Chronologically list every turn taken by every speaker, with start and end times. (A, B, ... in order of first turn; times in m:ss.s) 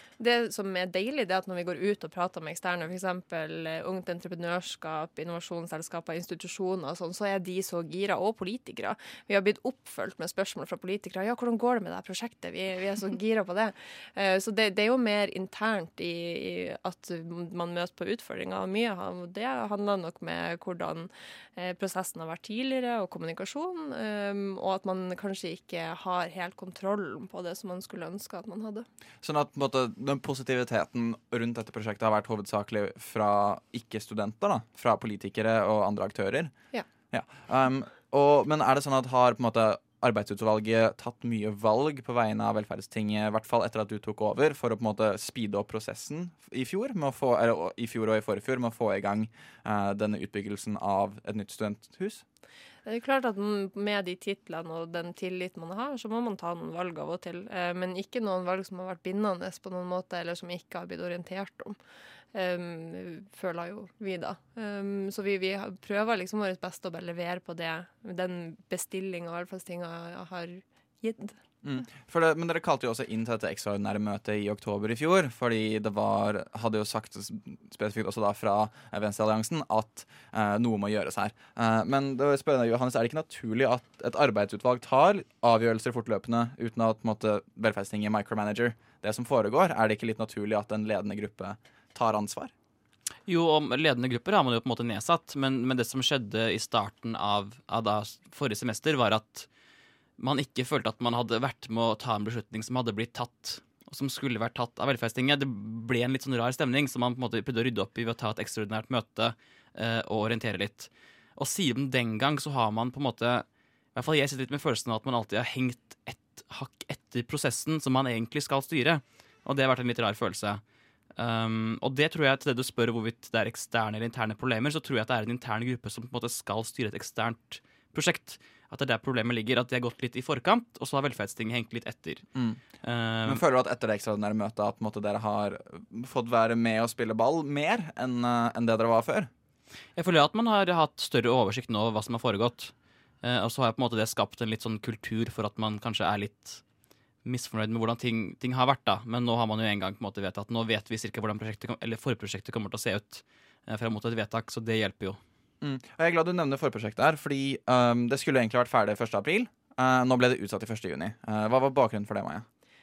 0:00.2-0:28.8 A
0:29.2-0:36.5 B
0:37.1-0:52.2 B
0:52.8-1:01.8 A
1:02.3-1:11.4 A
1:11.6-1:32.5 B
1:33.3-1:39.5 C
1:40.2-2:00.6 C
2:01.2-2:12.2 C
2:12.8-2:13.4 C
2:13.2-2:19.3 B
2:20.0-2:26.6 C
2:27.2-2:35.2 C
2:35.6-2:42.4 B